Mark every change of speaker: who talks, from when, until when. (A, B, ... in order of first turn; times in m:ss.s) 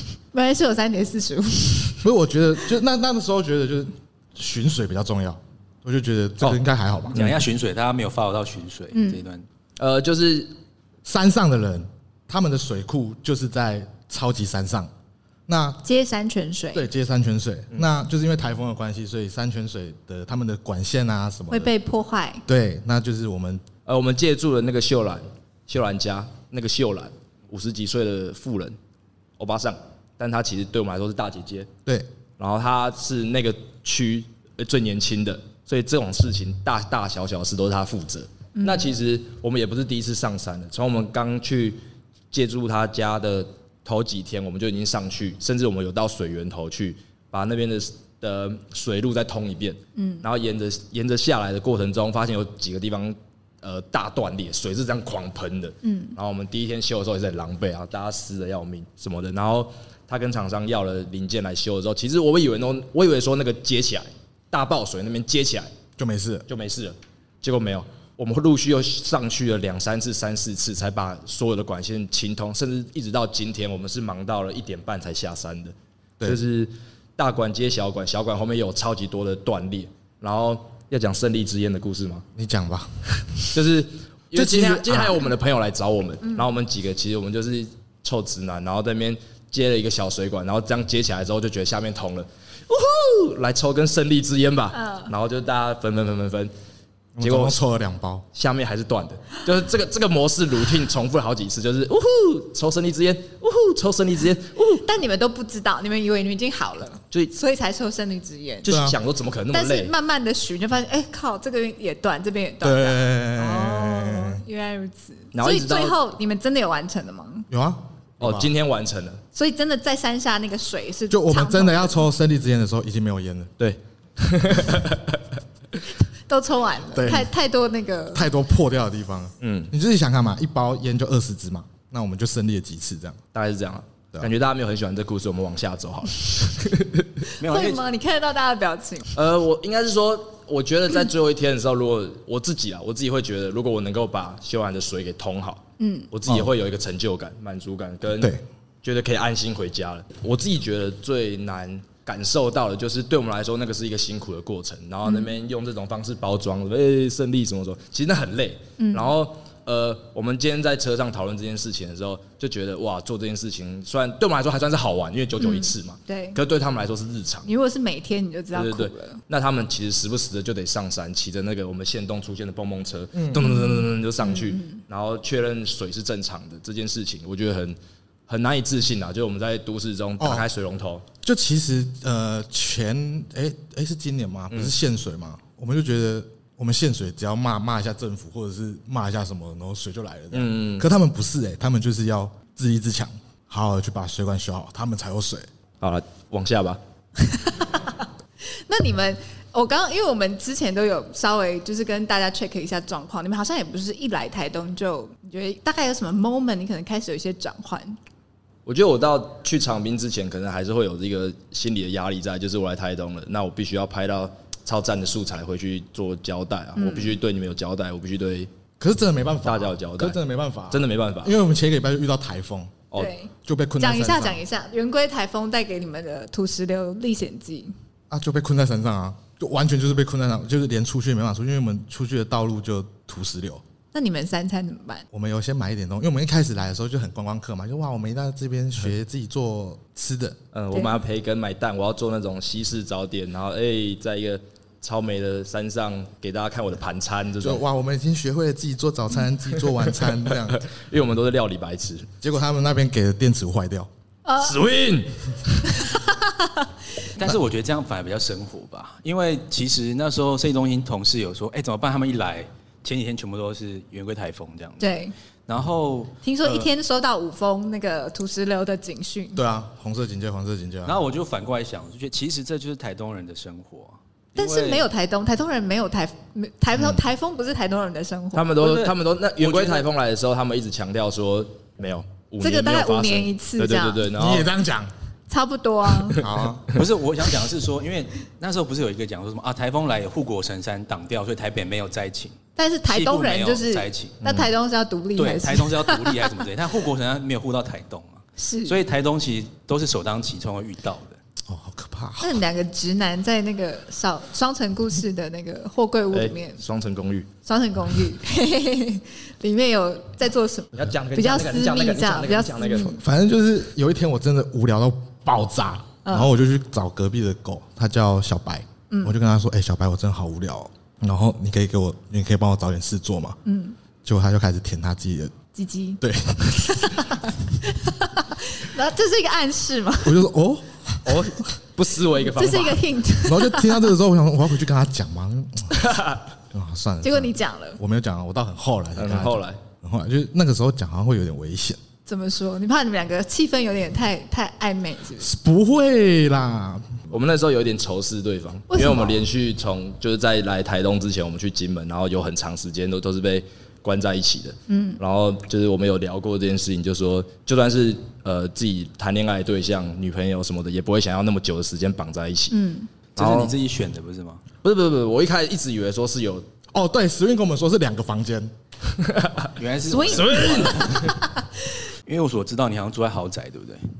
0:00.3-0:02.0 A
0:02.0-0:07.2 B
0:07.1-0:07.4 C
0:07.1-0:09.4 D
0:08.9-0:09.2 A
0:09.8-0:10.5 C
0:11.0-0:14.9 B
0:15.5-0:15.8 B
0:15.8-0:16.9 A
0:16.7-0:21.7 B
0:21.5-0:22.4 A
0:22.5-0:23.6 B
0:23.8-0:28.8 C
0:29.4-0:31.7 C
0:32.4-0:41.8 C
0:38.6-0:38.9 A
0:42.3-1:05.7 C
0:49.9-0:50.2 A
0:55.8-0:56.2 A
1:06.0-1:06.4 B
1:06.5-1:22.2 C
1:22.4-1:23.6 B
1:23.5-1:36.5 C
1:24.3-1:25.2 B
1:34.7-1:35.1 A
1:37.2-1:38.2 B
1:37.2-1:37.6 C
1:38.3-1:44.8 C
1:44.8-1:48.7 A
1:48.6-1:49.9 C
1:48.6-1:49.0 B
1:49.5-1:57.5 A
1:52.6-1:54.4 B
1:55.3-1:56.0 C
1:57.5-1:58.5 B
1:58.2-1:59.2 C
1:59.3-2:02.1 A
2:01.1-2:03.5 B
2:03.6-2:05.2 C
2:06.3-2:08.3 A
2:06.9-2:07.3 B
2:08.1-2:13.2 B
2:09.4-2:09.7 C
2:13.3-2:17.3 C
2:17.4-2:19.1 A
2:17.4-2:17.8 D
2:19.1-2:47.5 C
2:25.8-2:26.1 A
2:28.2-2:28.4 B
2:38.8-2:39.1 A
2:45.4-2:46.4 A
2:47.4-2:49.2 A
2:48.5-2:57.8 C
2:53.1-2:53.8 B
2:53.5-2:54.8 A
2:58.3-3:01.0 C
3:00.2-3:00.5 B
3:01.2-3:15.5 B
3:10.3-3:10.9 C
3:15.8-3:16.8 C
3:17.3-3:28.0 A
3:28.6-3:38.5 C
3:36.8-3:37.2 A
3:38.8-3:42.8 B
3:39.4-3:40.2 C
3:40.7-3:41.3 C
3:42.9-3:47.7 A
3:43.4-3:44.4 B
3:48.1-3:53.6 B
3:53.9-3:55.0 A
3:55.1-4:00.4 B
4:00.5-4:07.6 C
4:07.4-4:10.6 B
4:09.8-4:12.1 C
4:12.2-4:13.9 B
4:14.2-4:14.5 A
4:14.4-4:15.6 C
4:15.8-4:16.7 A
4:17.1-4:24.9 D
4:24.8-4:25.1 A
4:25.5-4:26.6 D
4:26.2-4:29.4 A
4:29.3-4:31.0 B
4:30.8-4:34.8 D
4:34.4-4:38.6 A
4:38.3-4:44.5 C
4:38.6-4:39.9 D
4:42.4-4:44.1 A
4:44.1-4:44.9 B
4:45.3-4:46.2 A
4:46.1-4:46.6 B
4:46.7-4:54.2 D
4:52.6-4:56.3 A
4:55.2-5:01.2 D
4:58.4-4:58.8 A
5:01.5-5:02.4 B
5:02.2-5:06.6 A
5:06.1-5:07.3 C
5:07.4-5:13.0 A
5:10.7-5:13.0 C
5:12.9-5:23.4 B
5:16.0-5:16.3 A
5:18.9-5:19.2 A
5:23.4-5:23.8 A
5:24.0-5:25.3 B
5:25.5-5:26.0 A
5:26.0-5:27.1 B
5:26.5-5:30.2 A
5:30.0-5:31.4 B
5:31.0-5:32.8 C
5:32.2-5:33.9 A
5:33.2-5:35.8 B
5:35.7-5:36.2 C
5:36.5-5:41.8 B
5:37.0-5:37.8 A
5:39.0-5:39.6 C
5:42.0-5:45.3 A
5:45.2-5:47.0 B
5:47.1-6:02.6 C
5:48.7-5:49.2 A
5:54.7-5:55.0 A
6:02.5-6:02.9 A
6:03.2-6:04.4 D
6:03.2-6:03.5 C
6:04.6-6:06.4 C
6:06.7-6:08.5 B
6:09.0-6:11.1 C
6:09.6-6:11.2 D
6:09.9-6:11.5 A
6:12.0-6:13.8 D